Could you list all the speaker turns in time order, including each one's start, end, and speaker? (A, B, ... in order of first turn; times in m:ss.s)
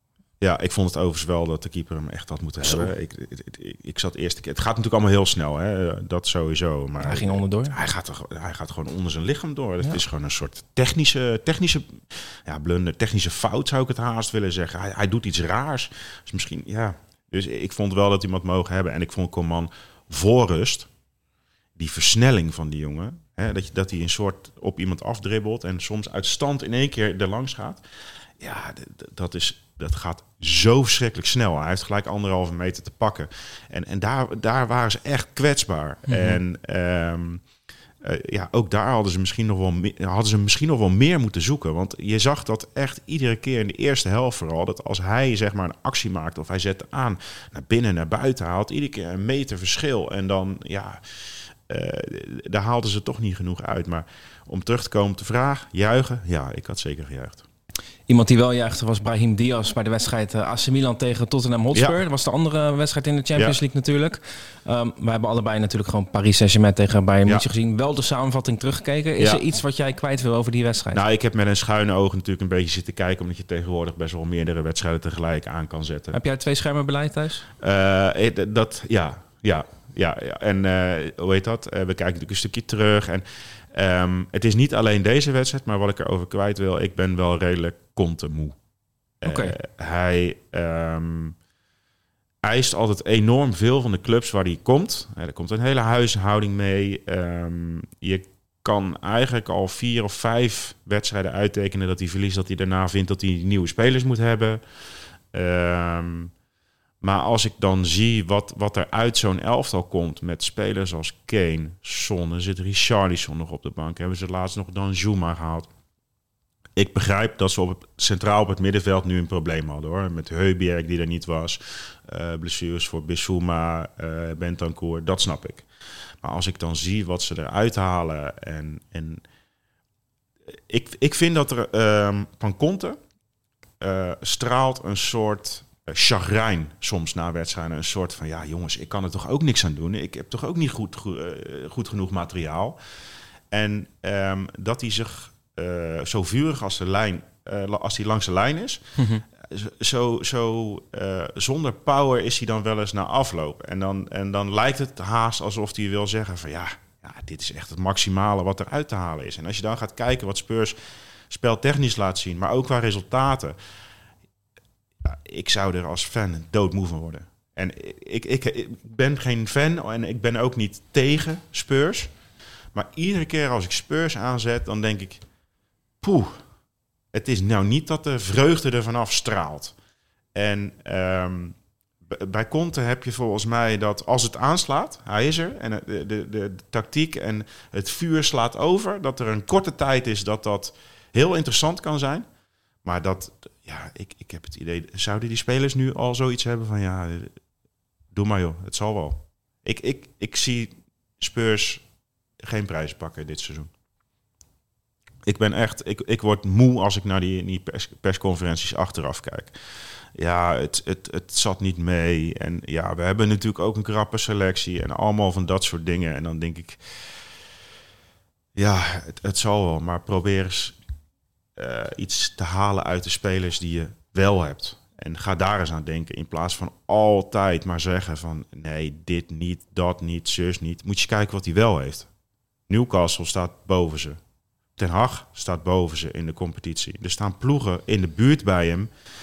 0:00.4-0:20.9 A
0:07.0-0:07.8 B
0:21.8-0:27.8 A
0:28.4-0:37.4 A
0:36.1-0:36.4 B
0:38.0-0:51.0 A
0:51.7-0:57.4 A
0:58.1-1:11.0 B
1:10.9-1:16.2 A
1:16.1-1:17.4 B
1:17.6-1:28.5 A
1:29.2-1:31.4 A
1:29.2-1:29.6 B
1:32.4-1:44.6 A
1:45.3-1:46.3 A
1:47.0-1:55.7 A
1:56.8-2:05.6 A
2:06.2-2:09.2 A
2:10.7-2:13.0 A
2:13.8-2:22.8 A
2:23.5-2:28.8 A
2:29.0-2:29.2 B
2:29.4-2:40.8 A
2:41.3-2:43.6 A
2:45.0-2:52.1 A
2:52.7-2:55.2 A
2:56.0-2:56.4 A
2:57.1-2:59.7 A
3:00.3-3:01.6 A
3:02.1-3:12.2 A
3:12.8-3:17.3 A
3:18.1-3:21.8 A
3:22.4-3:23.7 A
3:25.2-3:29.5 A
3:30.2-3:36.8 A
3:38.6-3:40.8 A
3:41.6-3:52.1 A
3:52.7-3:54.2 A
3:54.8-3:58.9 A